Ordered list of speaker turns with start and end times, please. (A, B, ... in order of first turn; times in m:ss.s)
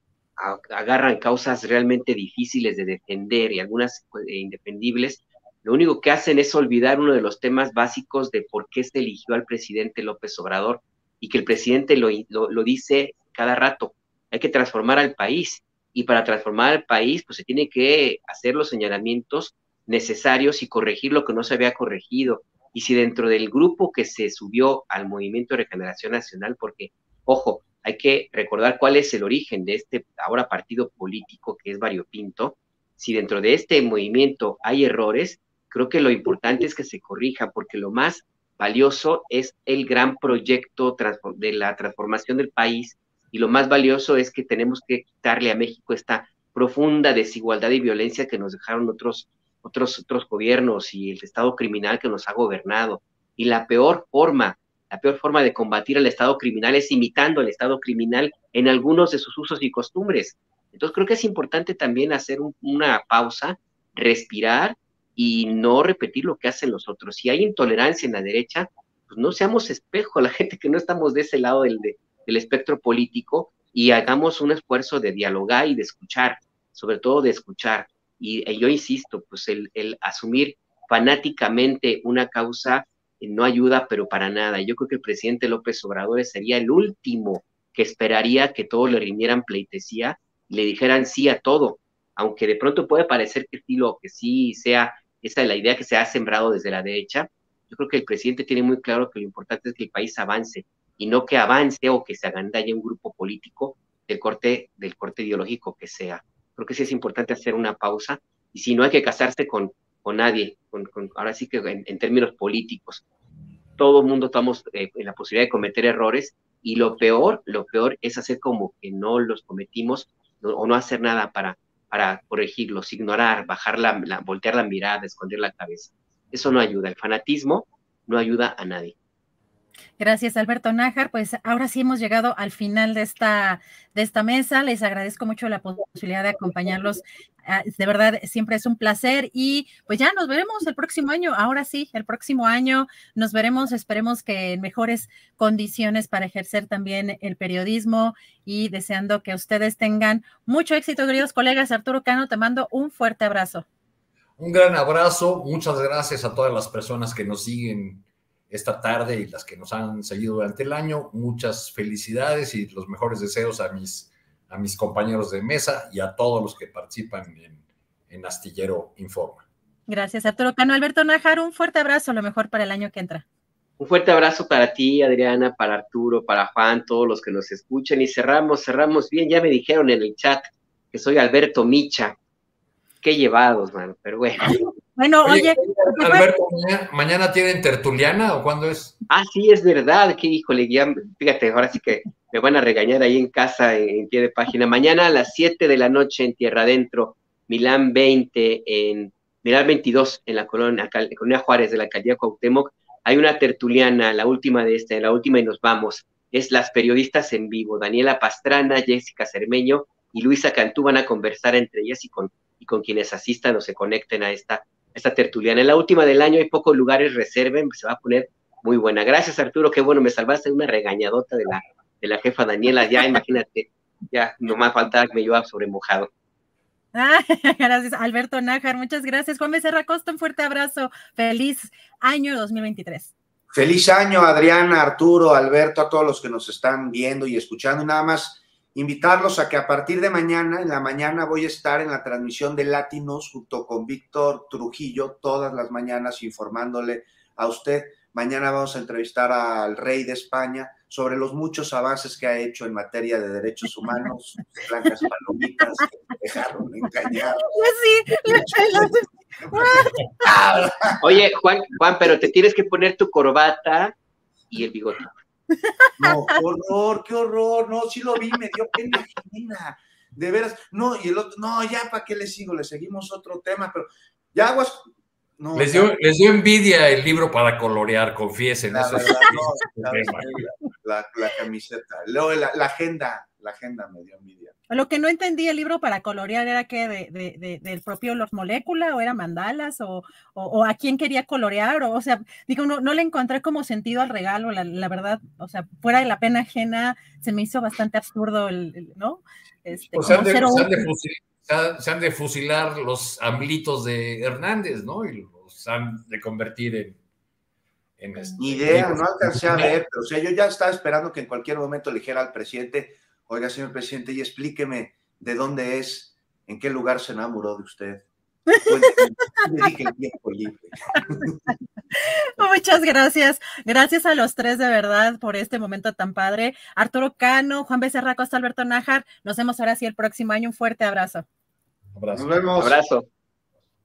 0:00.4-1:53.0 A
1:53.8-2:08.9 A
2:10.0-2:33.7 B
2:34.4-2:49.4 C
2:49.9-2:53.2 B
2:53.8-3:02.2 A
3:03.0-3:04.6 A
3:05.0-3:06.3 B
3:05.2-3:09.0 C
3:09.1-3:46.1 A
3:46.9-3:53.1 B
3:53.5-4:17.6 D
4:17.4-4:20.1 B
4:18.2-4:19.0 D
4:19.5-4:21.2 D
4:21.0-4:24.0 A
4:24.5-4:25.1 A
4:25.6-4:26.2 B
4:26.0-4:34.8 D
4:35.4-4:35.9 D
4:35.6-4:40.4 C
4:38.7-4:44.6 D
4:44.7-5:00.9 B
4:59.9-5:07.0 C
5:08.0-5:09.8 C
5:08.4-5:18.0 D
5:18.6-5:21.4 D
5:22.0-5:31.3 B
5:32.0-5:32.4 C
5:32.1-5:32.8 D
5:32.6-5:33.1 A